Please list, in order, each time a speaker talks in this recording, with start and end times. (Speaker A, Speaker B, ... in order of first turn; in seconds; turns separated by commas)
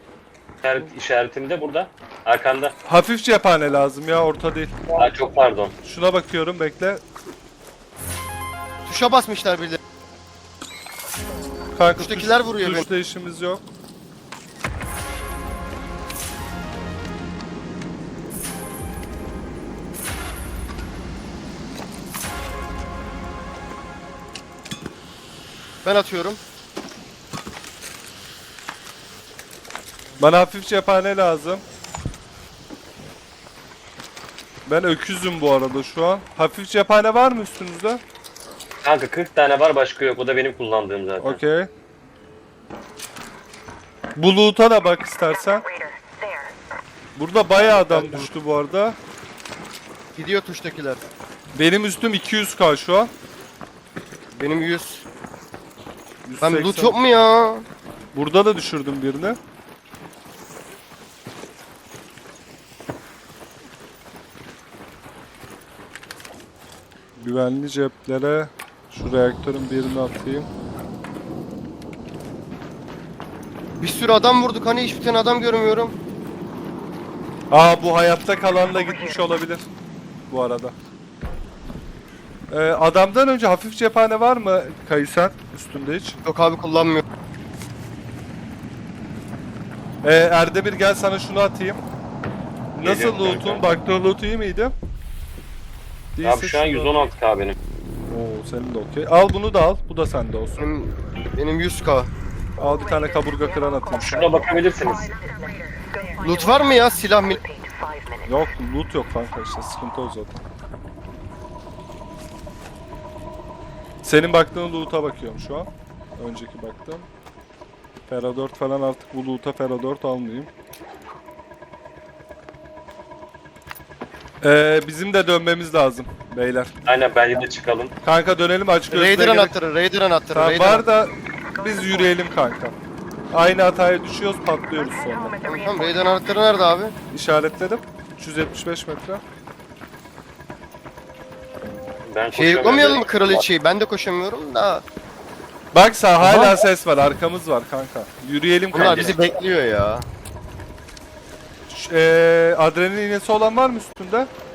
Speaker A: 0.6-2.7, Speaker B: 2.8-4.8, Speaker A: 4.9-5.7, Speaker B: 5.8-7.0, Speaker C: 8.8-9.8, Speaker B: 11.7-13.6, Speaker C: 11.9-12.9, Speaker C: 25.8-26.4, Speaker B: 30.2-31.6, Speaker B: 34.7-38.0, Speaker A: 38.8-41.4, Speaker B: 41.2-41.7, Speaker B: 44.1-45.7, Speaker B: 47.1-49.0, Speaker C: 47.5-48.3, Speaker C: 50.1-51.0, Speaker B: 51.5-53.1, Speaker C: 54.3-55.0, Speaker B: 56.2-57.0, Speaker C: 56.4-57.6, Speaker B: 58.1-59.4, Speaker B: 67.2-70.5, Speaker C: 73.8-75.9, Speaker B: 77.5-79.7, Speaker B: 80.3-80.7, Speaker B: 82.5-86.2, Speaker C: 86.2-87.0, Speaker B: 90.0-91.8, Speaker B: 92.7-94.7, Speaker A: 92.8-93.7, Speaker B: 96.2-97.0, Speaker A: 96.2-97.6, Speaker B: 98.1-100.6, Speaker C: 100.6-102.1, Speaker B: 102.6-104.3, Speaker A: 104.0-105.2, Speaker C: 106.2-107.4, Speaker B: 108.2-110.4, Speaker B: 114.0-117.1, Speaker B: 118.1-120.5, Speaker B: 124.4-126.7, Speaker A: 126.8-127.9, Speaker B: 128.0-129.5, Speaker C: 128.9-130.8, Speaker B: 130.3-132.8, Speaker B: 133.3-135.4, Speaker C: 135.4-136.9, Speaker B: 137.1-139.2, Speaker A: 142.1-143.4, Speaker C: 142.3-144.8, Speaker B: 145.7-149.2, Speaker C: 146.2-146.6, Speaker C: 148.7-150.1, Speaker B: 151.7-154.3